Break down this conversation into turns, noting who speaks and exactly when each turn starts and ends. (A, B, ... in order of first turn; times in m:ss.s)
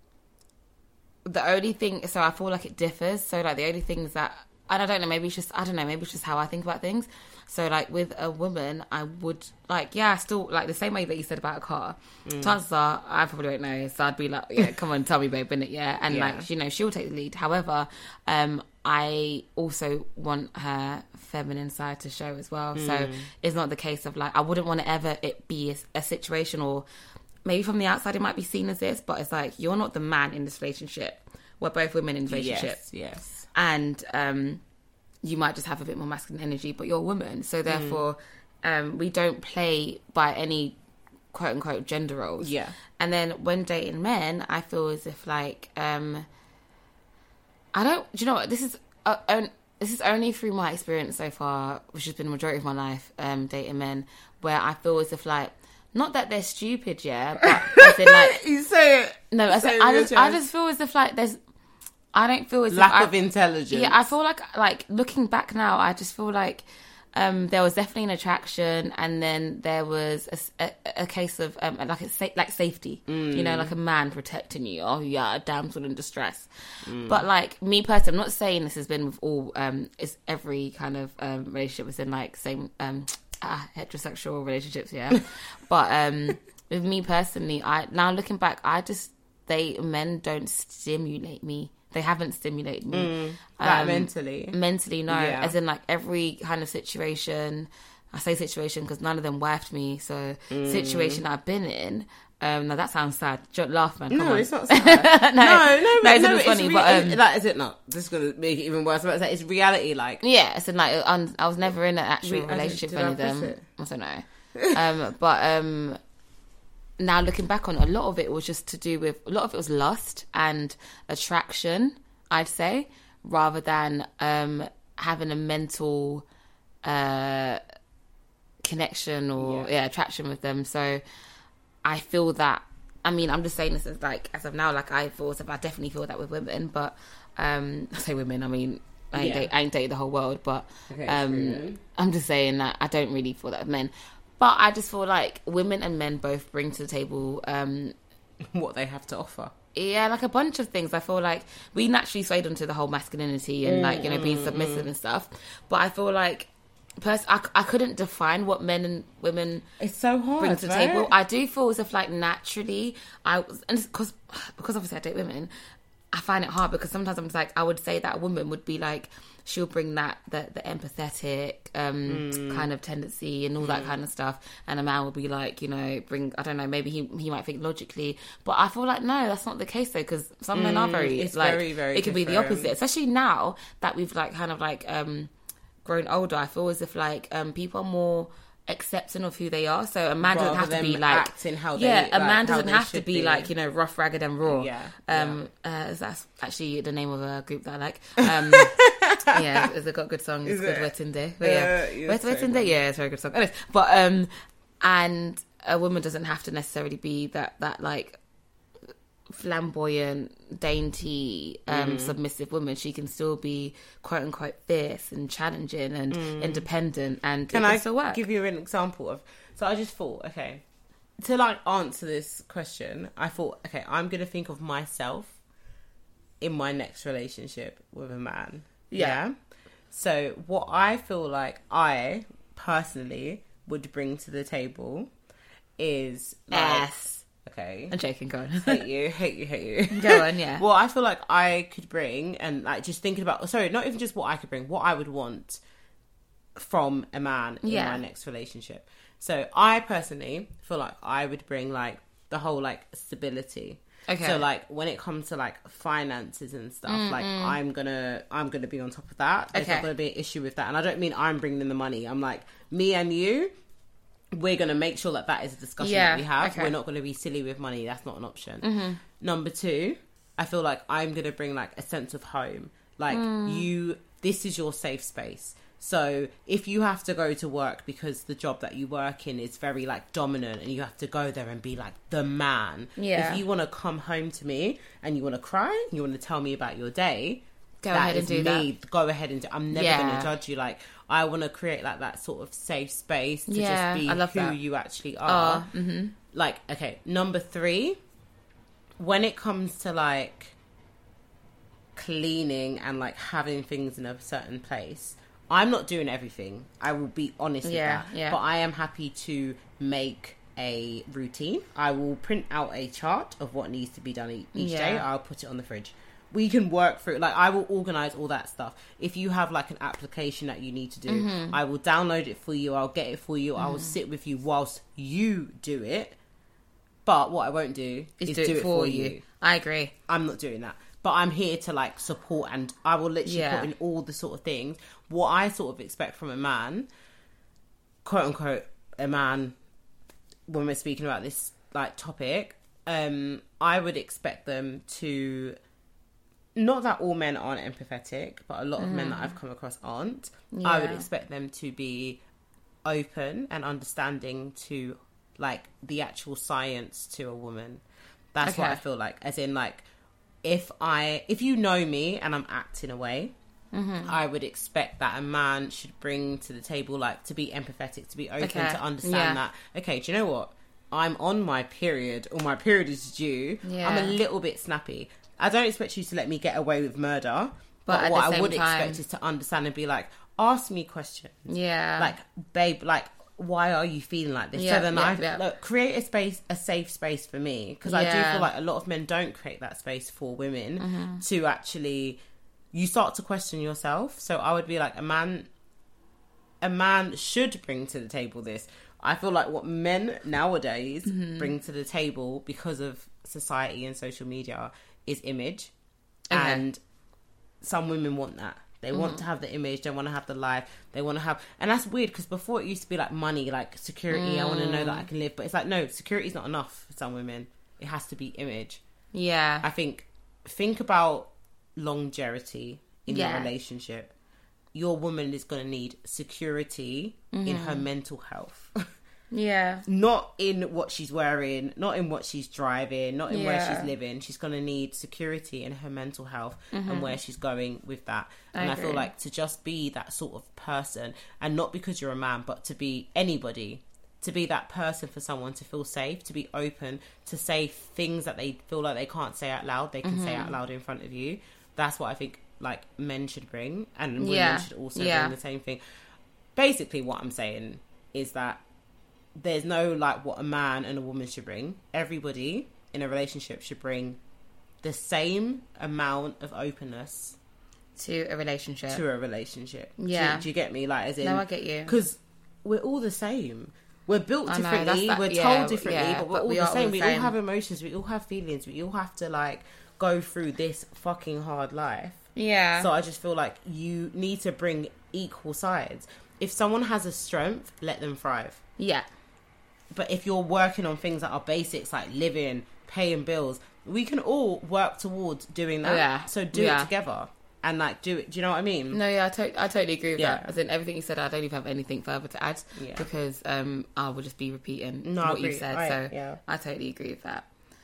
0:01.2-0:26.8 A
0:12.3-0:12.6 B
0:16.1-0:16.5 B
0:22.8-0:23.3 B
0:27.5-0:32.8 A
0:32.3-0:33.5 B
0:33.5-0:34.6 A
0:35.2-0:40.8 A
0:37.7-0:38.0 B
0:41.3-0:46.3 A
0:42.4-0:42.8 B
0:47.7-0:58.4 A
0:57.4-1:00.4 B
0:59.3-1:01.4 A
1:02.1-1:03.1 A
1:02.7-1:04.1 B
1:03.7-1:16.5 A
1:13.1-1:13.7 B
1:16.9-1:17.2 B
1:17.0-1:47.2 A
1:32.9-1:34.6 B
1:35.1-1:35.6 B
1:40.5-1:41.2 B
1:44.1-1:50.2 B
1:50.2-1:56.0 A
1:52.2-1:53.6 B
1:57.0-2:06.2 A
2:06.8-2:07.6 A
2:08.6-2:11.0 A
2:09.4-2:09.7 B
2:11.8-2:27.9 A
2:19.1-2:19.5 B
2:20.9-2:21.8 B
2:28.5-2:29.5 B
2:29.8-2:39.7 A
2:33.6-2:34.9 B
2:39.8-2:41.1 B
2:40.4-2:45.5 A
2:46.1-3:05.3 A
2:52.1-2:52.7 B
2:53.6-2:53.9 B
3:00.5-3:02.7 B
3:05.8-3:24.3 A
3:10.2-3:13.5 B
3:14.4-3:15.4 B
3:18.3-3:19.6 B
3:20.4-3:22.8 B
3:24.8-3:28.2 A
3:29.3-3:38.2 A
3:31.7-3:32.2 B
3:36.1-3:36.7 B
3:37.5-3:40.6 B
3:41.2-3:45.4 B
3:46.4-3:49.3 B
3:48.9-3:49.2 A
3:49.9-3:55.1 B
3:55.8-3:56.9 B
3:56.5-3:57.2 A
3:57.4-3:57.9 B
3:57.9-3:58.8 A
3:58.6-4:05.6 B
3:59.9-4:00.6 A
4:06.6-4:23.5 B
4:07.6-4:08.0 A
4:14.1-4:14.4 A
4:16.9-4:17.6 A
4:19.5-4:19.9 A
4:24.3-4:55.7 B
4:25.8-4:26.7 A
4:28.6-4:29.0 A
4:33.1-4:33.7 A
4:43.0-4:43.4 A
4:47.8-4:48.7 A
4:49.7-4:50.3 A
4:53.5-4:54.6 A
4:55.3-4:56.2 A
4:56.3-4:58.0 B
4:59.0-5:00.6 B
5:02.0-5:26.2 B
5:07.6-5:08.4 A
5:14.6-5:15.0 A
5:21.1-5:21.6 A
5:23.6-5:24.0 A
5:27.1-5:29.2 B
5:28.2-5:29.9 A
5:30.1-5:36.9 B
5:33.2-5:33.7 A
5:38.0-5:39.5 B
5:40.5-5:45.6 B
5:46.6-5:52.2 B
5:48.8-5:49.3 A
5:50.5-5:51.1 A
5:52.8-5:57.8 B
5:58.4-5:59.9 B
5:58.4-5:58.8 A
6:00.4-6:03.3 B
6:03.7-6:04.2 A
6:04.0-6:32.2 B
6:08.4-6:09.4 A
6:13.6-6:14.2 A
6:17.9-6:19.0 A
6:21.5-6:22.2 A
6:24.5-6:25.4 A
6:27.8-6:28.5 A
6:30.8-6:31.2 A
6:32.7-6:35.5 B
6:36.6-6:45.7 B
6:41.1-6:41.5 A
6:46.3-6:46.6 A
6:46.3-6:46.8 B
6:47.6-6:58.8 B
6:48.9-6:49.2 A
6:54.1-6:55.1 A
6:59.1-6:59.7 A
6:59.6-7:04.1 B
7:03.1-7:03.5 A
7:04.7-7:08.8 B
7:07.3-7:07.9 A
7:09.3-7:09.9 A
7:09.9-7:35.8 B
7:13.3-7:13.9 A
7:16.7-7:17.2 A
7:18.6-7:19.1 A
7:30.0-7:30.6 A
7:34.2-7:35.4 A
7:36.6-7:38.6 B
7:39.4-7:44.2 B
7:44.8-7:47.4 B
7:48.0-7:49.0 A
7:48.9-8:02.2 B
7:50.0-7:50.5 A
7:51.2-7:52.0 A
7:54.5-7:57.3 A
8:02.4-8:02.9 A
8:02.8-8:08.6 B
8:08.8-8:09.1 A
8:09.9-8:19.0 B
8:15.8-8:16.9 A
8:18.9-8:27.5 A
8:20.2-8:20.5 B
8:22.8-8:23.1 B
8:25.0-8:26.4 B